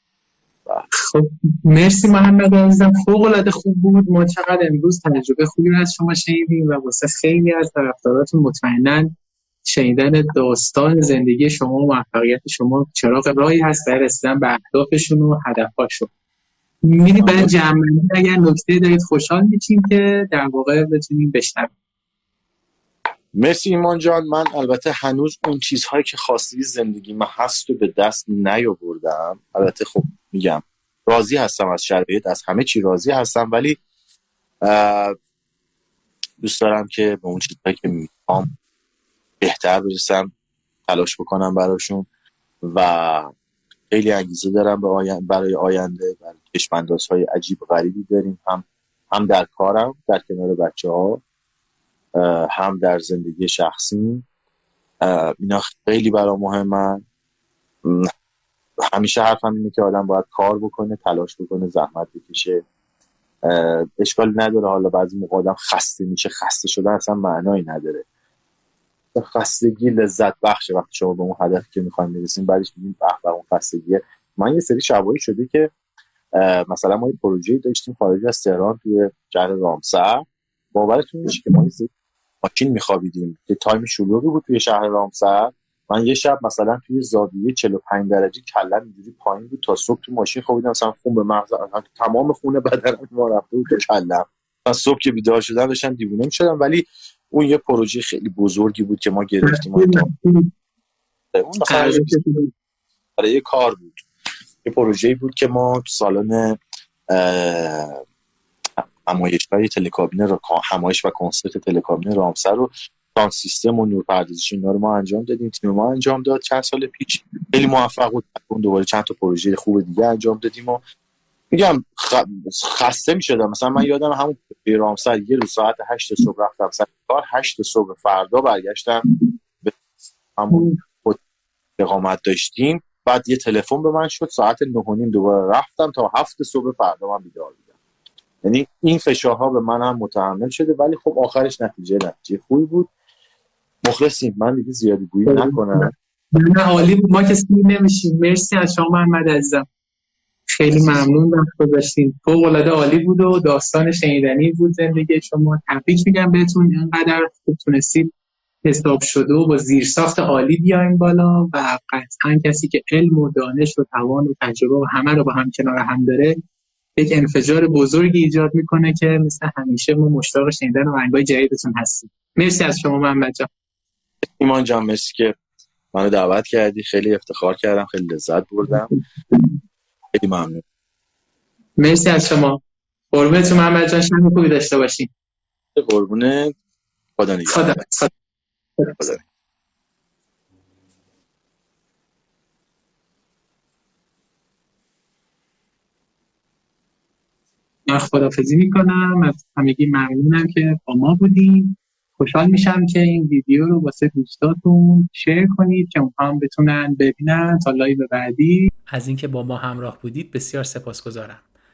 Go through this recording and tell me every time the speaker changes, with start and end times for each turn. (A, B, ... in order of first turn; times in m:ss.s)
0:00.9-0:09.1 A
0:09.6-0:16.1 A
0:16.8-0:21.7 A
0:17.2-0:17.5 B
0:23.3-0:33.8 B
0:34.6-0:35.2 B
0:36.4-0:38.5 B
0:39.4-0:40.3 B
0:40.9-0:42.1 B
0:42.6-0:43.3 B
0:43.9-0:51.2 B
0:52.2-0:54.2 B
0:55.0-0:57.0 B
0:57.8-0:58.1 B
0:58.9-1:02.6 B
1:03.5-1:08.0 B
1:09.2-1:15.7 B
1:16.4-1:21.9 B
1:22.4-1:40.1 B
1:39.4-1:40.5 A
1:41.3-1:42.2 B
1:41.7-1:42.5 A
1:43.2-1:44.0 B
1:44.6-1:48.0 B
1:48.8-2:00.8 B
2:01.5-2:09.0 B
2:10.4-2:11.2 B
2:10.5-2:10.8 A
2:11.8-2:17.6 B
2:18.4-2:22.9 B
2:23.8-2:25.9 B
2:25.3-2:29.7 A
2:30.5-2:38.1 A
2:30.7-2:31.1 B
2:38.6-2:46.4 A
2:47.0-2:53.5 A
2:54.4-2:55.4 B
2:55.9-2:58.9 B
2:58.7-2:59.6 A
3:00.2-3:00.6 B
3:01.8-3:05.1 A
3:05.8-3:06.6 B
3:07.2-3:07.8 B
3:07.5-3:08.1 A
3:08.8-3:09.0 A
3:09.0-3:09.2 B
3:17.9-3:28.7 A
3:28.9-3:31.4 C